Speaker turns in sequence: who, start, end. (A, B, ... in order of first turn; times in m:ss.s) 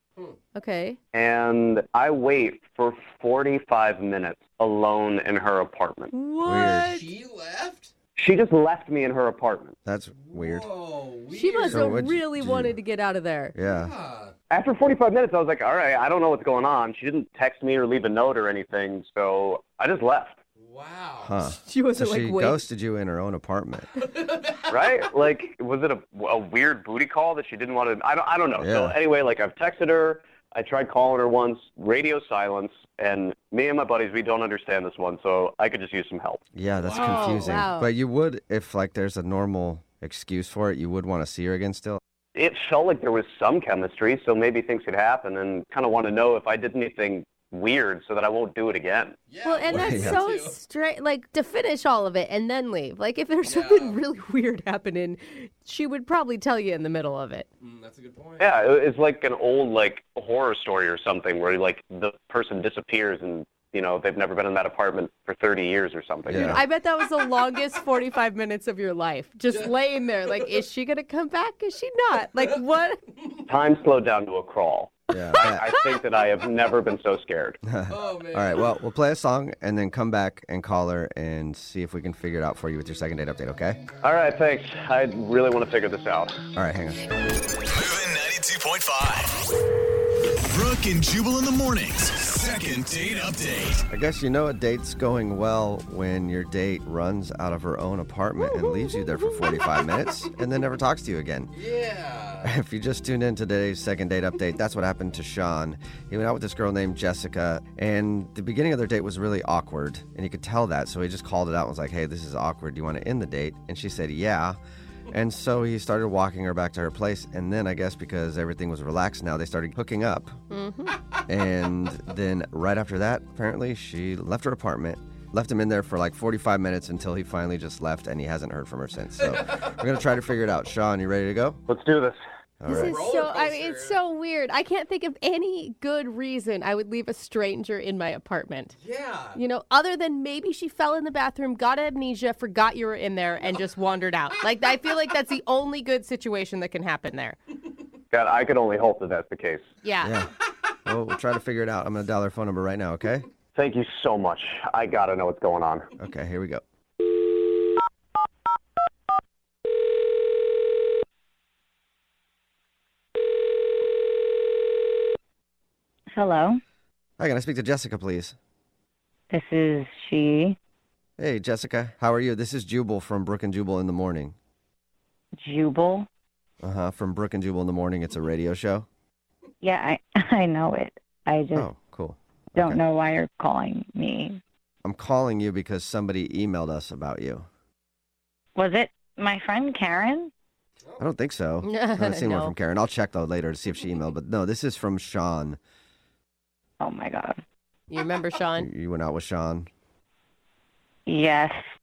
0:00.5-0:01.0 A
0:01.1-0:06.1 B
0:06.1-0:07.1 A
0:06.4-0:06.9 C
0:06.6-0:07.9 D
0:08.2-0:09.7 B
0:09.8-0:10.7 C
0:10.2-0:12.0 D
0:11.3-0:13.5 A
0:11.7-0:12.8 C
0:13.5-0:13.9 C
0:13.6-0:14.3 D
0:14.5-0:20.4 B
0:20.6-0:21.4 D
0:21.2-0:23.9 C
0:21.5-0:22.6 A
0:24.0-0:24.7 D
0:24.7-0:36.4 B
0:28.6-0:29.0 C
0:36.5-0:42.0 C
0:36.8-0:37.6 D
0:36.9-0:37.9 A
0:42.3-0:49.2 B
0:49.3-0:50.6 D
0:49.4-0:57.5 A
0:49.7-0:50.2 C
0:53.4-0:54.0 D
0:57.6-0:58.5 D
0:58.4-1:06.6 B
1:06.2-1:06.6 C
1:06.3-1:13.0 A
1:09.5-1:09.8 D
1:13.4-1:17.6 B
1:15.1-1:15.7 C
1:17.6-1:23.8 C
1:17.9-1:18.7 D
1:24.0-1:26.4 B
1:26.6-1:27.1 C
1:27.7-1:29.4 E
1:30.5-1:33.8 E
1:33.9-1:41.5 C
1:38.4-1:39.9 A
1:41.5-1:42.5 D
1:42.4-1:54.6 C
1:55.1-2:00.4 C
2:00.5-2:01.0 A
2:01.3-2:11.6 C
2:09.2-2:09.7 D
2:11.7-2:12.2 B
2:12.6-2:13.0 C
2:12.6-2:18.7 A
2:12.7-2:14.0 D
2:18.8-2:19.4 D
2:19.3-2:27.4 A
2:28.1-2:29.6 B
2:29.8-2:30.1 A
2:30.0-2:30.3 C
2:30.8-2:33.3 C
2:33.6-2:35.9 B
2:36.0-2:36.6 C
2:46.1-2:46.6 F
2:47.2-2:48.3 C
2:49.3-2:50.6 F
2:51.2-2:54.3 C
2:55.4-2:56.1 F
2:56.6-2:58.9 C
2:59.6-3:01.7 F
3:01.5-3:02.8 C
3:02.6-3:04.4 F
3:04.8-3:07.4 C
3:08.6-3:10.3 F
3:11.0-3:15.6 C
3:11.6-3:12.5 A
3:16.8-3:17.4 F
3:17.9-3:18.7 A
3:18.6-3:19.7 C
3:21.1-3:21.6 F